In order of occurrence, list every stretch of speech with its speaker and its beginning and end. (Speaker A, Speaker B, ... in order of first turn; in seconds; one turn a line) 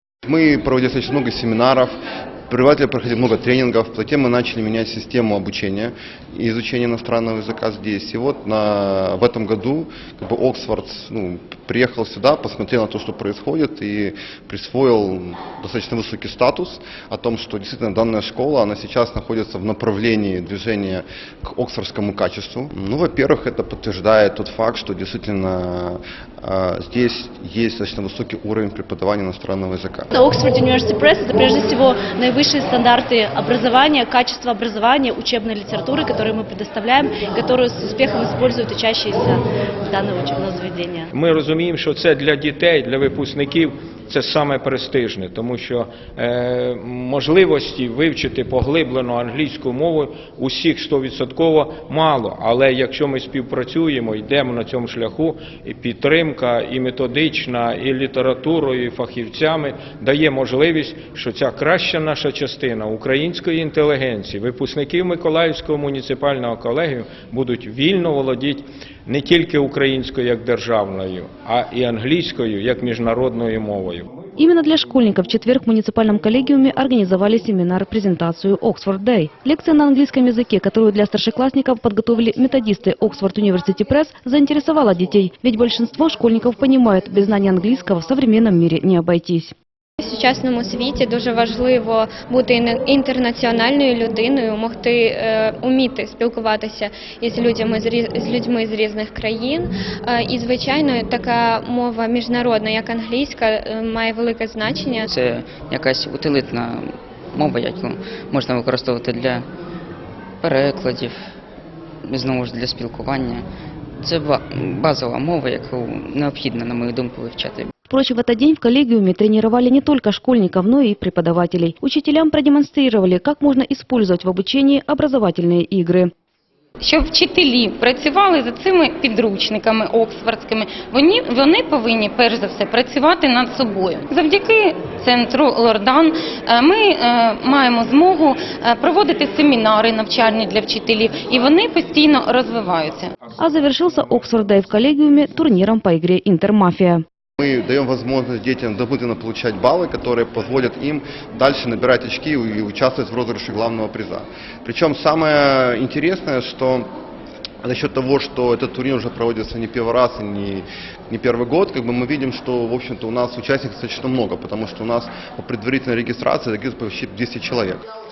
Speaker A: 0.2-2.0
Speaker A: 2.5-30.1
Speaker B: 30.1-41.1
Speaker C: 41.1-74.1
Speaker D: 74.4-89.5
Speaker E: 90.0-105.1
Speaker F: 105.1-109.4
Speaker F: 110.4-111.2
Speaker F: 112.0-113.4
Speaker F: 114.0-117.7
Speaker D: 117.9-126.1
Speaker G: 126.8-143.1
Speaker D: 143.4-147.0
Speaker A: 147.4-156.9
Speaker A: 157.6-167.8